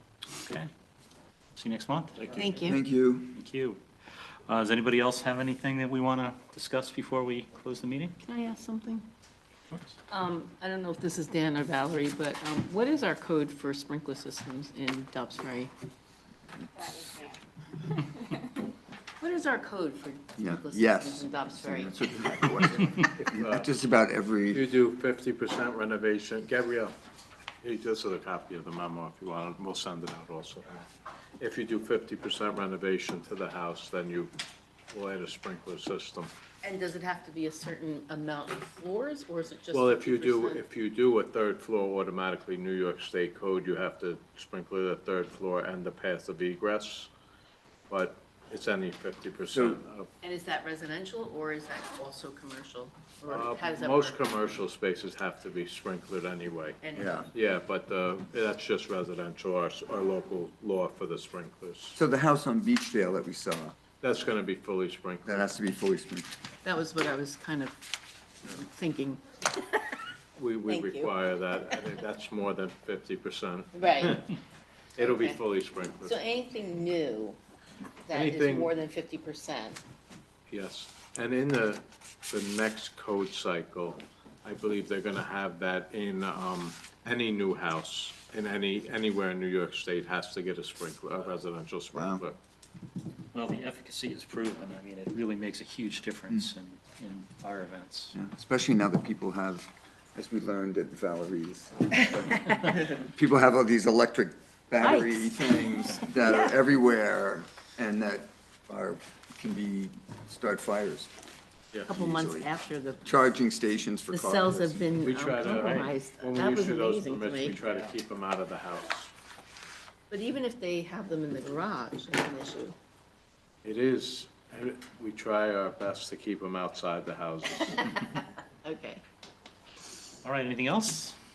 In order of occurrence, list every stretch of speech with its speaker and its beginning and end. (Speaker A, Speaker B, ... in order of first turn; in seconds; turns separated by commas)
Speaker A: 0.3-0.7, Speaker A: 1.6-2.6, Speaker B: 2.2-2.5, Speaker C: 2.3-2.8, Speaker D: 2.6-3.4, Speaker A: 3.3-3.8, Speaker A: 4.5-8.2, Speaker C: 8.2-9.1, Speaker A: 9.7-10.0, Speaker C: 10.1-15.7, Speaker C: 16.9-17.2, Speaker C: 18.2-18.5, Speaker C: 19.2-22.0, Speaker D: 20.4-24.6, Speaker B: 23.2-23.7, Speaker B: 24.5-26.9, Speaker B: 27.6-30.9, Speaker B: 31.4-34.3, Speaker B: 34.9-36.3, Speaker C: 36.6-40.6, Speaker B: 39.7-47.1, Speaker B: 47.9-50.1, Speaker D: 49.5-49.8, Speaker C: 50.2-54.2, Speaker B: 53.3-56.8, Speaker C: 56.8-57.3, Speaker D: 56.9-57.3, Speaker B: 57.3-62.0, Speaker D: 61.9-63.7, Speaker B: 64.0-65.5, Speaker D: 65.2-66.3, Speaker C: 66.6-67.8, Speaker C: 68.4-70.0, Speaker B: 70.3-74.3, Speaker C: 70.7-71.2, Speaker C: 73.7-74.3, Speaker B: 75.0-76.2, Speaker C: 75.0-75.4, Speaker C: 76.0-77.4, Speaker C: 78.0-79.8, Speaker B: 78.1-78.7, Speaker B: 80.5-92.4, Speaker D: 91.9-92.2, Speaker A: 93.3-98.2, Speaker D: 98.1-111.1, Speaker C: 104.8-106.5, Speaker C: 111.8-113.0, Speaker D: 111.9-112.5, Speaker D: 113.0-115.0, Speaker C: 114.1-117.5, Speaker B: 115.0-119.1, Speaker A: 115.4-115.9, Speaker A: 117.5-117.9, Speaker C: 120.1-122.7, Speaker B: 123.6-128.0, Speaker C: 128.1-129.0, Speaker A: 130.2-131.2